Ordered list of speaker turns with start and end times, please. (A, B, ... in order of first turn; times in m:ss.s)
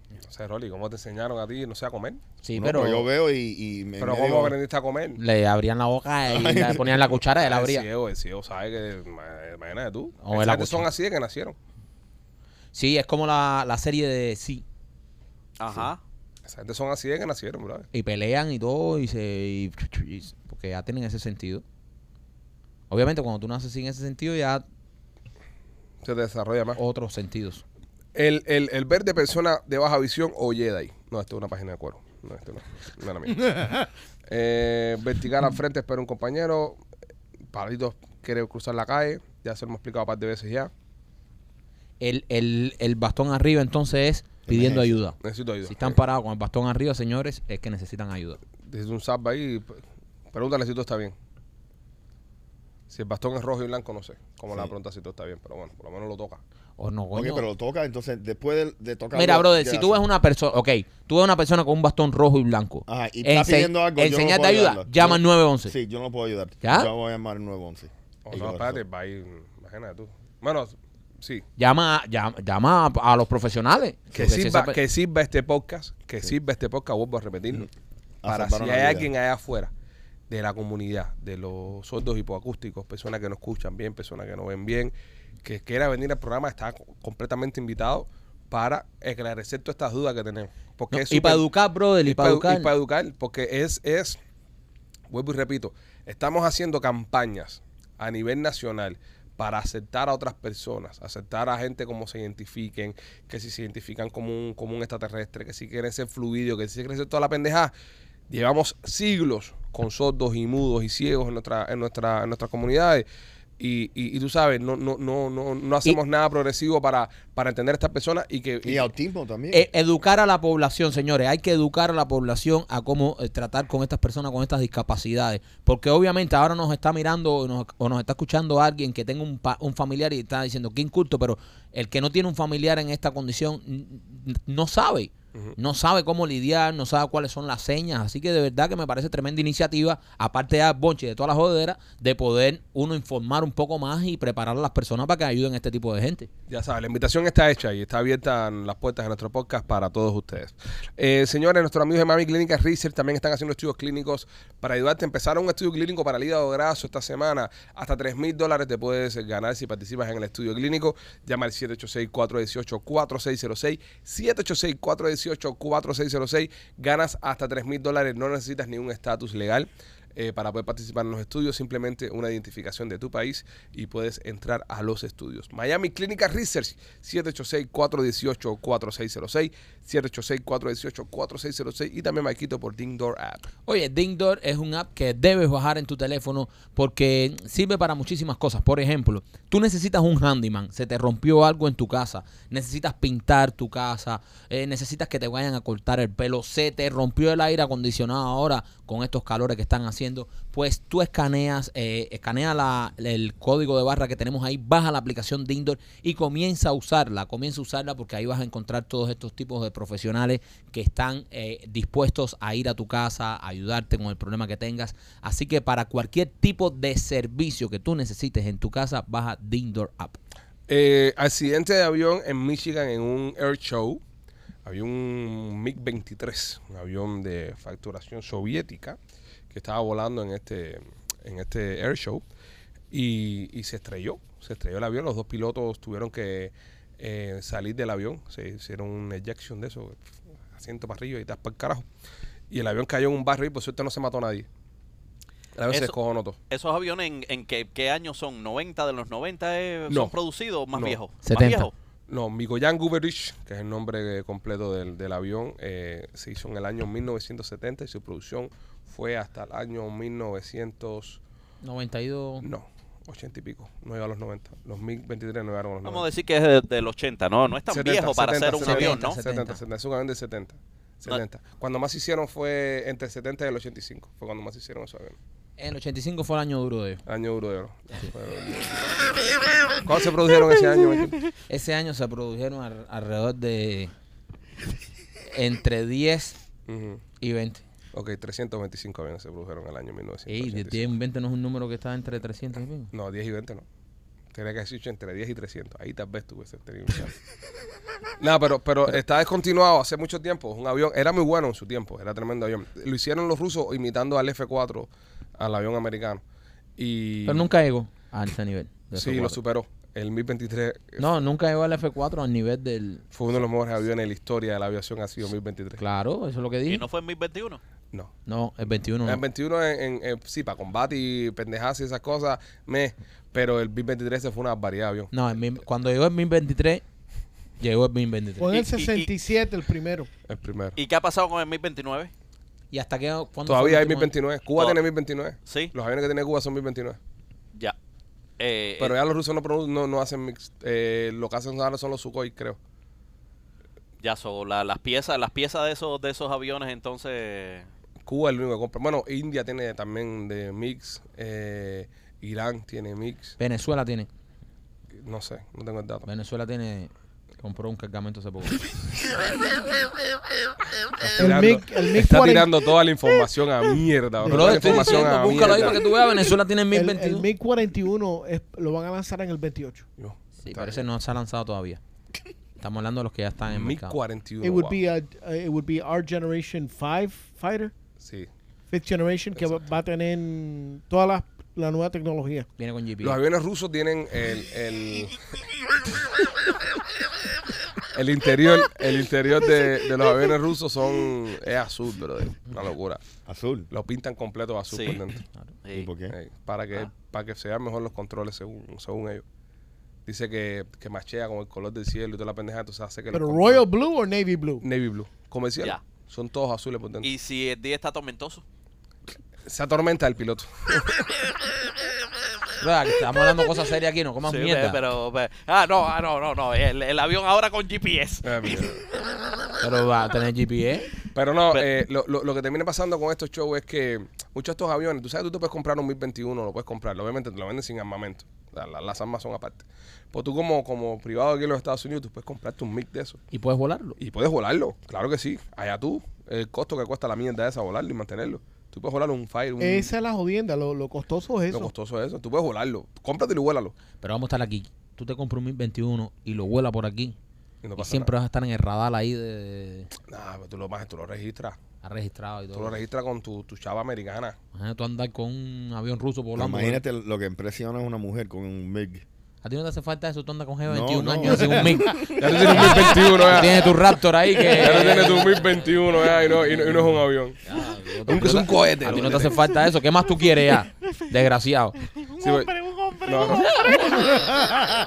0:00.2-0:02.2 A
0:02.4-0:03.1 B
0:02.5-0:04.6 C
0:04.0-0:05.2 A
0:05.2-0:07.9 B
0:06.3-0:07.0 C
0:07.4-0:11.6 A
0:10.2-0:10.9 B
0:12.7-0:14.6 B
0:15.6-0:16.0 D
0:16.5-0:17.9 A
0:17.9-0:21.6 B
0:22.9-0:24.6 B
0:26.0-0:26.8 A
0:26.8-0:27.6 B
0:28.2-0:33.5 A
0:34.3-0:36.8 A
0:37.5-0:40.7 A
0:42.0-0:48.4 B
0:44.5-0:45.0 C
0:45.2-0:46.0 A
0:48.6-0:49.8 A
0:50.3-0:51.2 A
0:52.9-0:56.4 A
0:56.8-0:57.4 B
0:57.2-1:00.1 C
0:59.1-1:05.7 B
1:02.9-1:08.8 C
1:06.6-1:06.9 B
1:08.3-1:11.5 A
1:11.6-1:14.8 B
1:14.1-1:17.7 A
1:18.2-1:19.1 C
1:18.3-1:19.7 A
1:20.3-1:24.9 A
1:25.4-1:31.4 A
1:30.9-1:32.7 B
1:32.1-1:34.2 A
1:35.1-1:47.7 A
1:48.3-1:53.0 A
1:53.6-1:58.9 A
1:58.6-1:59.7 C
1:59.5-2:26.3 B
2:26.5-3:03.5 A
3:03.7-3:40.2 B
3:40.7-3:44.0 A
3:44.6-3:49.0 A
3:49.5-3:52.2 A
3:52.9-4:00.0 A
4:00.5-4:01.8 A
4:02.5-4:04.5 A
4:05.6-4:06.4 A
4:05.7-4:06.0 D
4:06.5-4:11.7 D
4:09.9-4:10.1 A
4:11.2-4:11.7 B
4:12.1-4:21.2 A
4:21.6-4:22.5 B
4:22.4-4:26.1 A
4:25.8-4:29.2 D
4:27.7-4:35.2 A
4:28.6-4:29.6 B
4:35.6-4:37.0 B
4:37.1-4:39.0 A
4:39.8-4:41.2 A
4:41.5-4:43.9 B
4:45.3-4:46.4 B
4:46.7-4:47.0 A
4:47.2-4:47.6 B
4:47.9-4:50.9 A
4:50.3-4:52.9 B
4:52.9-4:53.6 A
4:54.3-4:57.2 A
4:58.2-5:06.2 A
5:06.8-5:07.5 A
5:07.3-5:09.4 B
5:09.0-5:11.1 A
5:11.0-5:13.0 B
5:13.1-5:15.8 A
5:15.8-5:16.8 B
5:16.7-5:17.6 D
5:18.3-5:19.2 B
5:19.0-5:25.1 A
5:25.1-5:26.8 B
5:27.6-5:28.5 B
5:28.4-5:30.1 E
5:28.5-5:29.1 D
5:30.3-5:30.8 A
5:30.8-5:32.1 D
5:32.7-5:34.1 B
5:33.5-5:37.0 A
5:35.5-5:35.7 D
5:38.4-5:39.0 D
5:38.8-5:42.6 A
5:44.0-5:47.7 D
5:48.0-5:53.4 A
5:53.4-5:54.1 B
5:55.0-5:56.1 A
5:56.1-5:58.6 B
6:01.0-6:05.8 A
6:01.2-6:02.5 E
6:04.2-6:05.1 E
6:04.3-6:07.3 B
6:06.7-6:09.8 E
6:10.0-6:10.8 A
6:10.4-6:11.8 B
6:12.6-6:14.0 B
6:13.5-6:14.8 A
6:14.4-6:17.7 E
6:18.0-6:18.3 A
6:18.7-6:22.5 E
6:22.6-6:23.2 B
6:23.0-6:25.2 A
6:27.9-6:33.0 A
6:33.3-6:33.7 C
6:33.7-6:35.2 A
6:34.7-6:35.0 D
6:35.6-6:35.9 D
6:35.7-6:36.2 C
6:36.1-6:39.2 A
6:40.1-6:43.6 A
6:43.1-6:44.6 E
6:44.6-6:47.1 A
6:47.0-6:48.4 D
6:49.5-6:51.1 A
6:52.6-6:54.8 B
6:54.2-6:58.7 D
6:58.2-6:58.8 A
6:59.6-7:00.9 B
7:01.1-7:13.2 A
7:13.3-7:14.0 B
7:14.0-7:19.9 A
7:19.6-7:21.7 E
7:21.5-7:23.7 A
7:24.0-7:27.2 B
7:27.6-7:28.1 A
7:27.8-7:29.9 B
7:30.1-7:31.6 A
7:31.8-7:32.8 B
7:32.5-7:34.4 A
7:34.5-7:36.8 B
7:36.4-7:39.0 C
7:39.4-7:51.8 B
7:40.7-7:42.6 C
7:42.1-7:43.9 A
7:44.5-7:47.4 A
7:48.1-7:49.4 A
7:52.2-7:52.5 A
7:52.2-7:53.5 D
7:53.0-7:53.5 A
7:53.5-7:54.1 B